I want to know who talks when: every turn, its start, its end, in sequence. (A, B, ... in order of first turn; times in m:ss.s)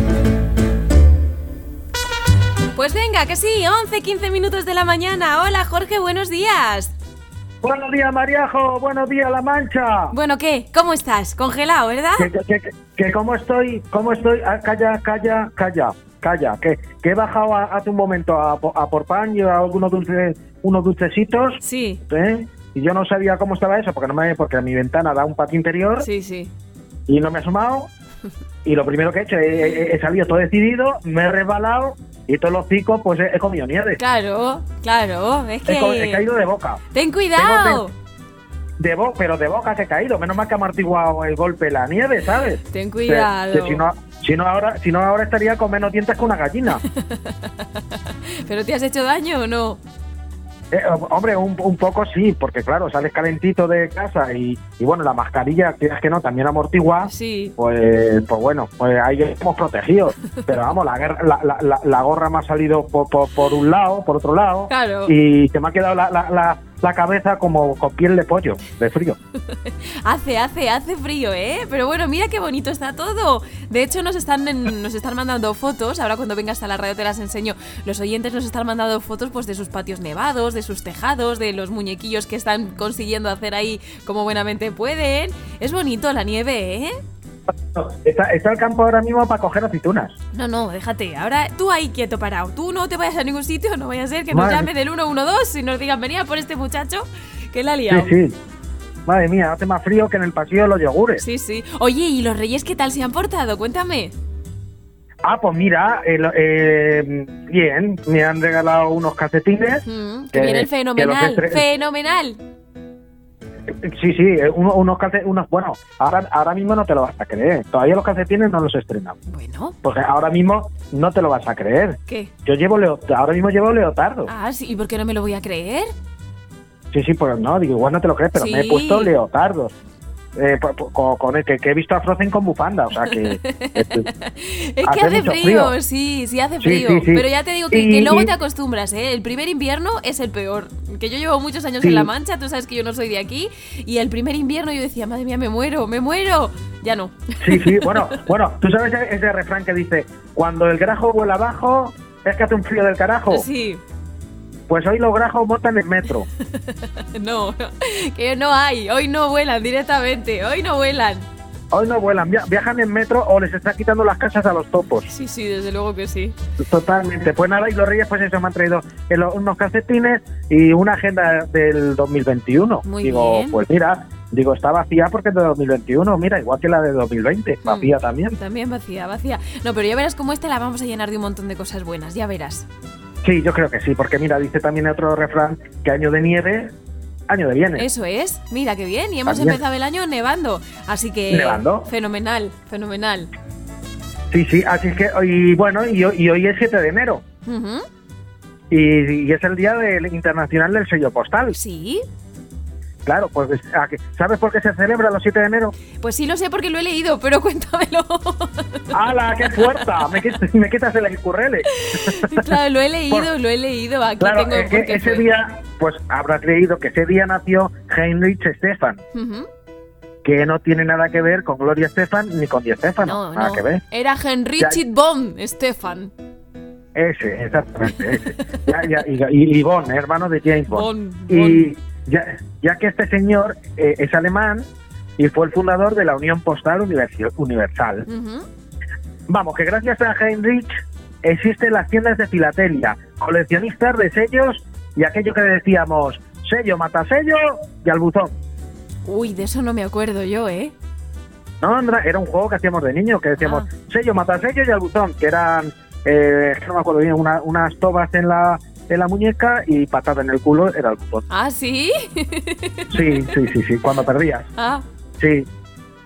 0:02.7-0:06.9 A
0:07.6-0:10.2 B
0:10.1-0:12.3 A
0:12.2-0:26.1 B
0:21.6-0:22.0 A
0:26.0-0:26.5 A
0:27.1-0:27.9 B
0:28.6-0:34.0 B
0:34.0-0:36.2 A
0:35.7-0:36.8 B
0:36.9-0:37.9 A
0:37.4-0:37.8 B
0:38.8-0:46.8 B
0:42.7-0:43.8 A
0:46.9-0:47.5 A
0:48.4-0:49.8 A
0:50.7-1:09.2 B
0:57.0-0:57.6 A
1:04.7-1:05.1 A
1:09.6-1:26.9 A
1:27.7-1:30.2 B
1:30.3-1:38.1 A
1:34.3-1:34.7 B
1:37.9-1:38.4 B
1:39.1-1:41.2 B
1:41.2-1:44.1 A
1:45.2-1:51.7 B
1:49.8-1:52.4 A
1:53.8-1:59.2 B
1:59.3-1:59.8 A
1:59.8-2:04.3 B
2:02.1-2:02.3 A
2:04.3-2:05.9 A
2:06.9-2:09.8 B
2:08.4-2:09.1 A
2:10.4-2:14.1 B
2:13.0-2:28.2 A
2:14.8-2:15.8 B
2:16.6-2:18.3 B
2:21.8-2:22.1 B
2:27.4-2:33.5 B
2:33.3-2:33.8 A
2:34.7-2:36.3 B
2:36.6-2:41.3 A
2:41.7-2:45.1 B
2:45.1-2:46.4 A
2:46.6-2:58.4 B
2:52.8-2:53.6 A
2:57.6-3:02.7 A
3:03.2-3:06.7 B
3:07.3-3:07.9 B
3:07.8-3:13.3 A
3:09.3-3:09.6 B
3:11.3-3:11.9 B
3:14.3-3:17.2 B
3:17.5-3:17.8 A
3:18.7-3:21.6 B
3:21.5-3:22.0 A
3:23.0-3:25.8 B
3:26.0-3:28.9 A
3:28.9-3:32.5 B
3:29.4-3:29.9 A
3:31.7-3:35.3 A
3:34.2-3:39.0 B
3:39.1-3:39.5 A
3:40.2-3:43.8 B
3:43.0-3:46.1 A
3:47.0-3:54.7 B
3:50.7-3:51.7 A
3:55.2-3:58.1 B
3:58.1-3:58.5 A
3:59.3-4:00.7 B
4:01.2-4:08.3 B
4:09.0-4:10.7 A
4:11.6-4:21.2 B
4:13.4-4:13.7 A
4:21.3-4:23.1 A
4:22.9-4:24.5 B
4:24.6-4:24.8 A
4:25.2-4:25.5 B